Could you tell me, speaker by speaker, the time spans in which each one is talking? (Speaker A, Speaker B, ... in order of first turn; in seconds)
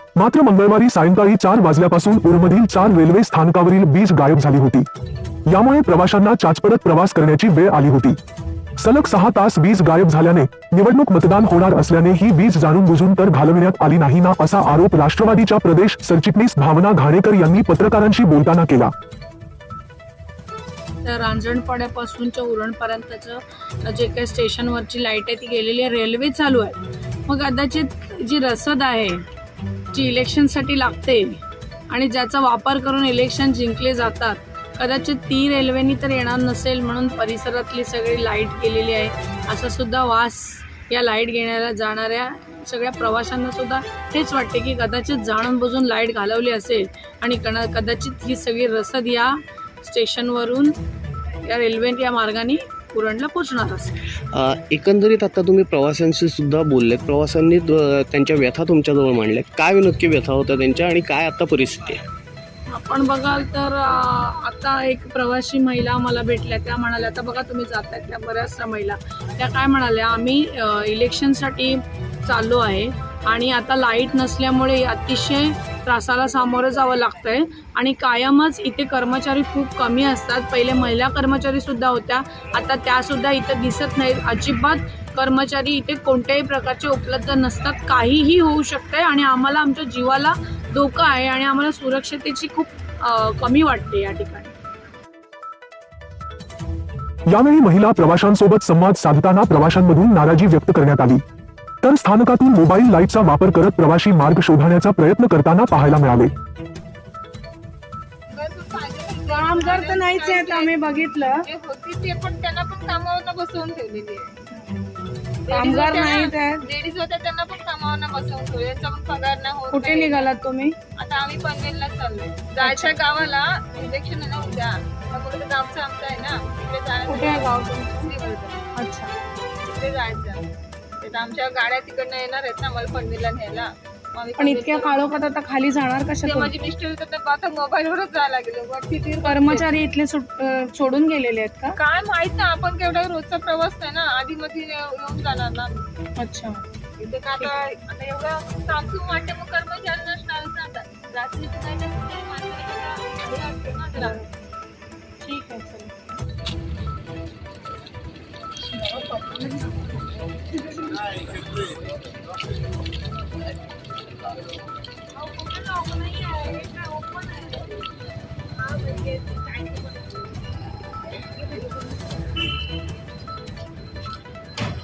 Speaker A: 0.1-4.9, 5.5-8.2, 8.8-18.9, 97.3-101.2, 101.8-106.3
Speaker B: 21.0-29.2, 29.9-31.4, 31.9-50.7, 51.4-53.9, 62.7-94.5, 109.3-111.4, 115.5-116.6, 119.7-120.7, 122.6-123.0, 127.1-128.1, 128.8-129.1, 134.4-136.5, 139.2-141.8, 146.2-146.6, 155.2-156.0, 158.7-160.0, 160.5-161.0, 165.2-167.6, 168.7-170.0, 171.5-171.8
Speaker C: 54.3-62.0
Speaker D: 108.3-110.7, 111.4-114.3, 115.5-120.3, 121.0-128.6, 129.6-130.5, 131.0-135.1, 136.2-139.7, 141.8-145.8, 147.0-154.2